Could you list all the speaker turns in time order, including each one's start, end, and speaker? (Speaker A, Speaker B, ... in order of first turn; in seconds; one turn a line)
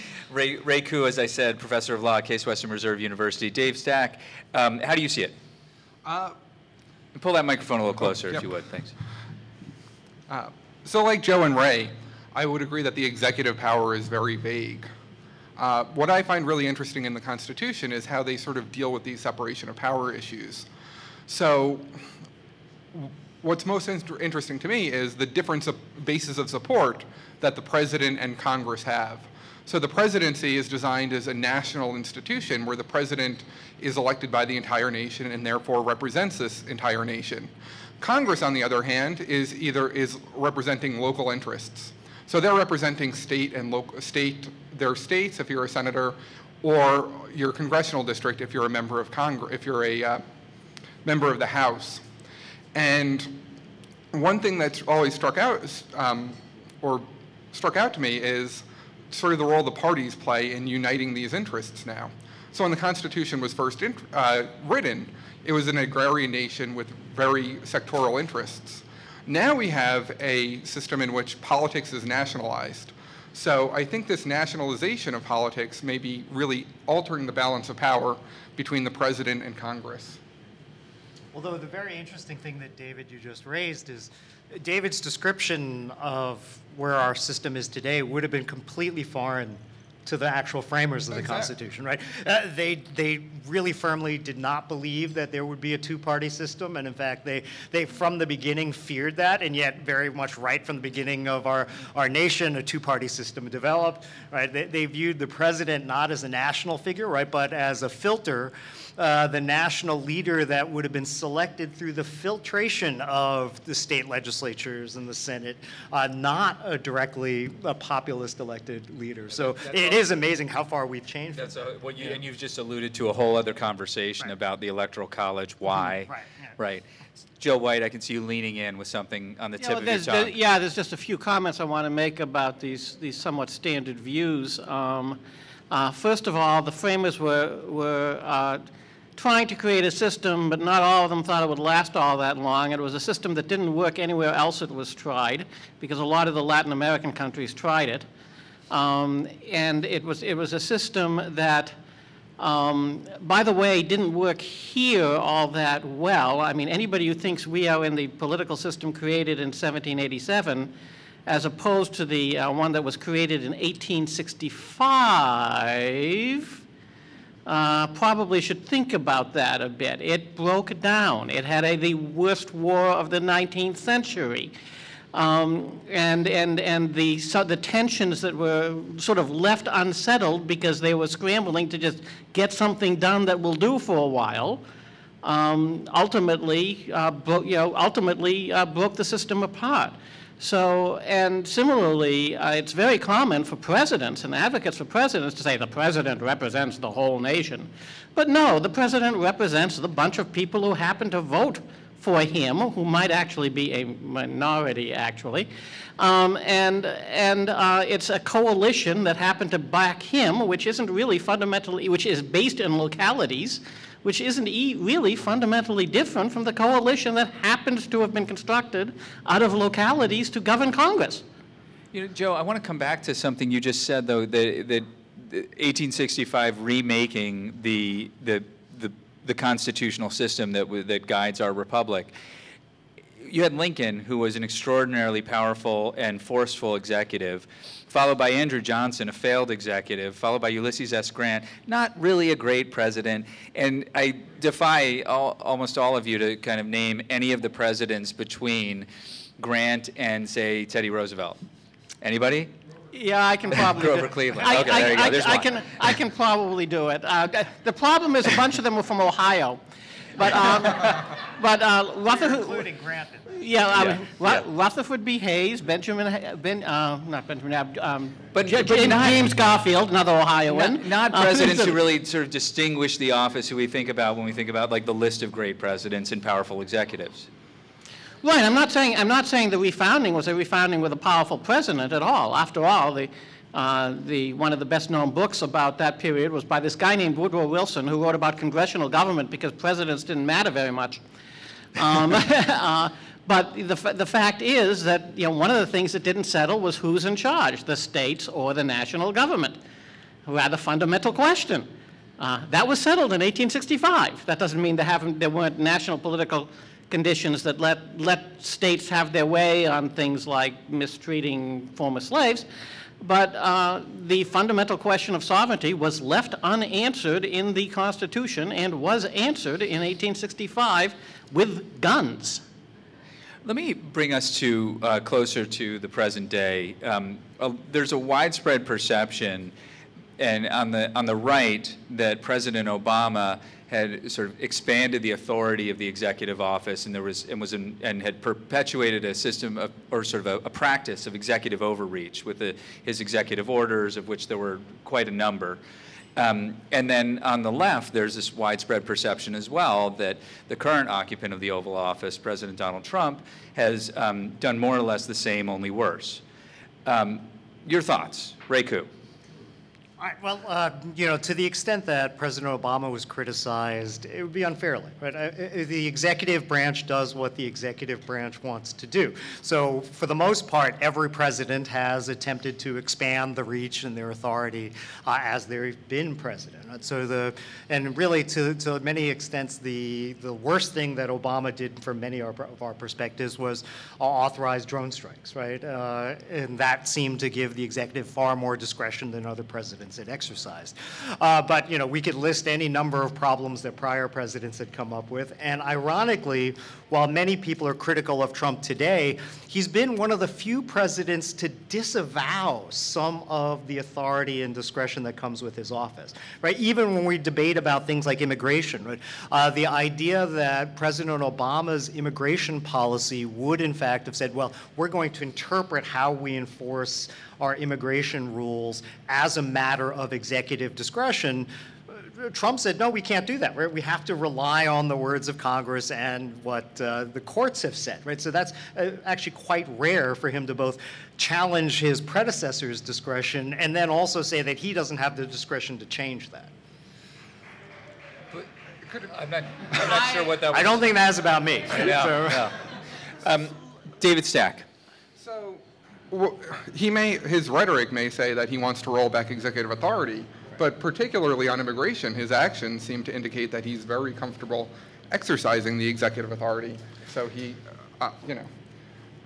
Speaker A: 0.3-5.3
Speaker B: 6.0-6.3
Speaker A: 7.1-8.9
Speaker B: 10.3-14.9
Speaker B: 15.6-20.7
Speaker B: 21.3-21.9
Speaker B: 22.9-37.5
Speaker B: 38.0-50.2
Speaker B: 51.0-52.0
Speaker B: 52.7-53.4
Speaker B: 54.1-80.2
Speaker C: 81.3-122.2
Speaker A: 119.5-120.0
Speaker A: 121.3-126.8
Speaker C: 126.1-126.5
Speaker A: 127.4-130.3
Speaker D: 129.6-135.2
Speaker D: 135.7-138.6
Speaker D: 139.2-148.1
Speaker D: 148.7-151.7
Speaker D: 152.4-160.7
Speaker D: 161.2-166.6
Speaker D: 167.4-174.5
Speaker D: 175.1-184.6
Speaker D: 185.2-221.2
Speaker A: 221.9-232.1
Speaker A: 233.2-248.9
Speaker A: 249.4-251.4
Speaker A: 252.0-252.5
Speaker D: 252.9-259.6
Speaker A: 253.6-255.6
Speaker D: 260.2-262.7
Speaker C: 262.1-263.4
Speaker D: 263.3-271.7
Speaker A: 263.7-264.4
Speaker A: 268.3-269.2
Speaker A: 270.5-277.3
Speaker D: 278.2-291.0
Speaker D: 291.8-299.6
Speaker D: 300.2-301.7
Speaker D: 302.2-312.4
Speaker D: 313.0-322.4
Speaker A: 323.4-329.5
Speaker A: 330.2-345.6
Speaker A: 346.1-356.2
Speaker A: 356.9-358.9
Speaker C: 360.0-436.5
Speaker A: 438.3-440.8
Speaker C: 439.8-442.5
Speaker A: 441.8-442.6
Speaker A: 443.2-444.6
Speaker B: 445.2-458.5